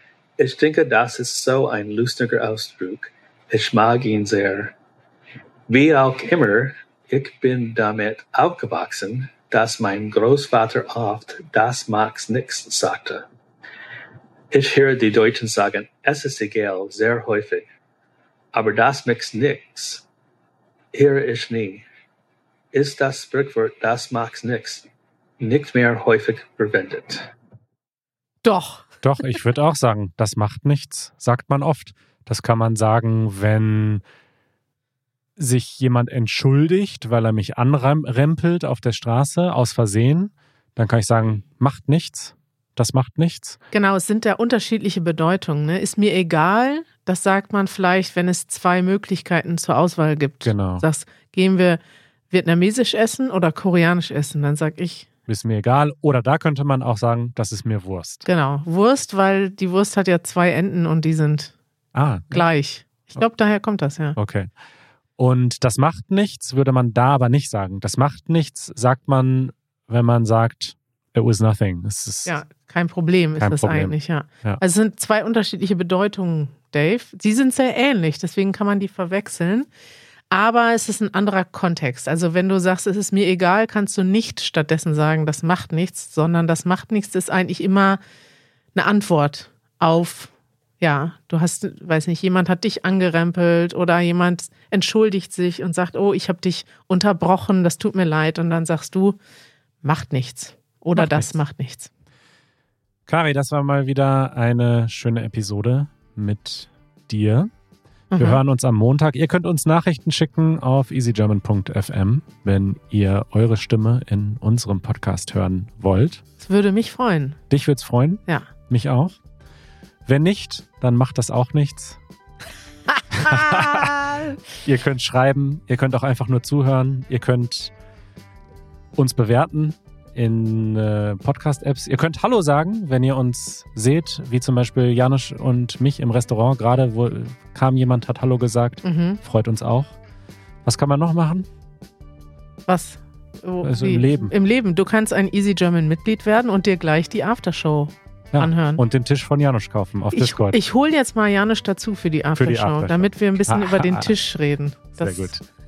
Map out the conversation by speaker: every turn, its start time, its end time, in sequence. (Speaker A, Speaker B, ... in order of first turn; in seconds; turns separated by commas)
Speaker A: 0.4-4.8, Speaker A: 5.7-13.2, Speaker A: 14.5-17.7, Speaker A: 18.5-20.1, Speaker A: 20.9-21.9, Speaker A: 22.7-24.9, Speaker A: 25.4-27.3, Speaker B: 28.4-28.9, Speaker C: 29.0-34.0, Speaker C: 35.4-43.6, Speaker B: 43.7-51.8, Speaker C: 50.4-50.9, Speaker B: 52.3-55.1, Speaker C: 55.3-58.2, Speaker B: 58.2-61.5, Speaker C: 61.9-62.5, Speaker B: 62.3-64.2, Speaker C: 64.2-64.5, Speaker C: 65.2-72.4, Speaker B: 72.3-79.7, Speaker C: 73.4-74.6, Speaker B: 80.3-88.0, Speaker B: 88.8-99.2, Speaker B: 99.8-101.9, Speaker C: 101.0-101.3, Speaker C: 103.1-107.5, Speaker B: 108.1-108.4, Speaker C: 108.2-116.2, Speaker B: 116.4-117.4, Speaker C: 117.5-119.2, Speaker C: 120.0-122.0, Speaker C: 123.1-127.7, Speaker B: 123.2-124.2, Speaker C: 129.0-140.0, Speaker B: 138.8-139.2, Speaker C: 140.7-141.5, Speaker B: 142.7-148.8, Speaker C: 143.6-144.3, Speaker C: 148.3-150.6, Speaker B: 150.1-155.3, Speaker C: 152.4-154.1, Speaker C: 155.0-155.4